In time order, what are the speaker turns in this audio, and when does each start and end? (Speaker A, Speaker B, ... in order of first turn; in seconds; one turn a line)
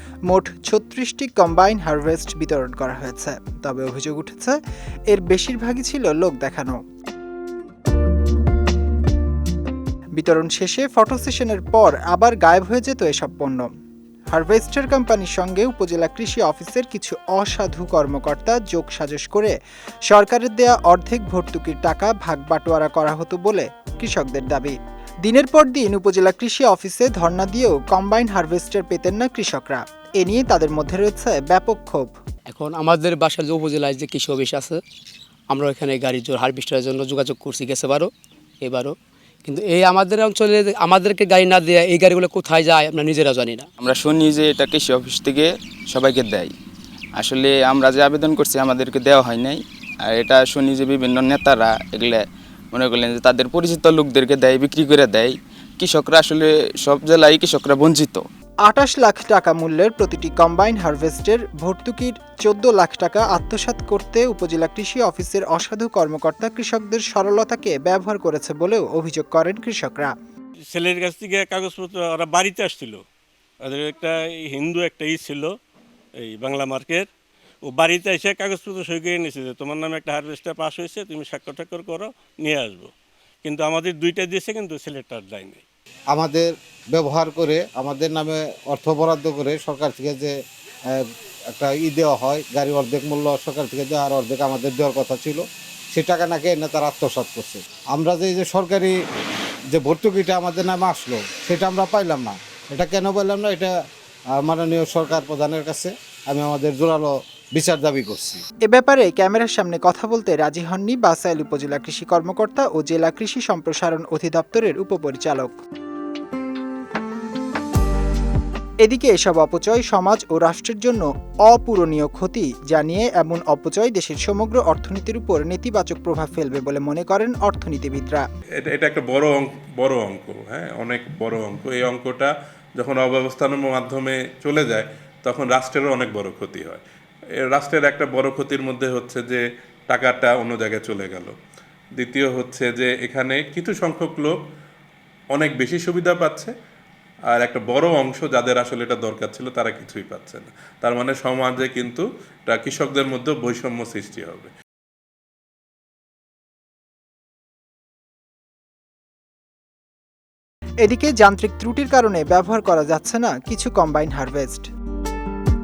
Speaker A: 0.3-6.8
Speaker A: 10.2-13.7
Speaker A: 14.3-19.5
Speaker A: 20.1-32.1
Speaker B: 32.5-34.8
Speaker B: 35.5-38.1
Speaker B: 38.6-38.9
Speaker B: 39.5-43.7
Speaker C: 43.8-46.5
Speaker C: 47.1-58.2
Speaker A: 58.6-70.1
Speaker D: 70.7-73.0
Speaker D: 73.6-75.6
Speaker D: 76.2-77.1
Speaker D: 77.6-82.9
Speaker D: 83.4-85.6
Speaker E: 86.1-90.3
Speaker E: 91.5-98.9
Speaker E: 99.7-103.7
Speaker E: 104.3-108.4
Speaker A: 108.6-115.6
Speaker A: 118.8-128.2
Speaker F: 128.6-136.8
Speaker F: 137.4-141.3
Speaker F: 142.0-144.4
Speaker F: 145.3-146.5
Speaker F: 147.3-154.5
Speaker A: 160.8-164.7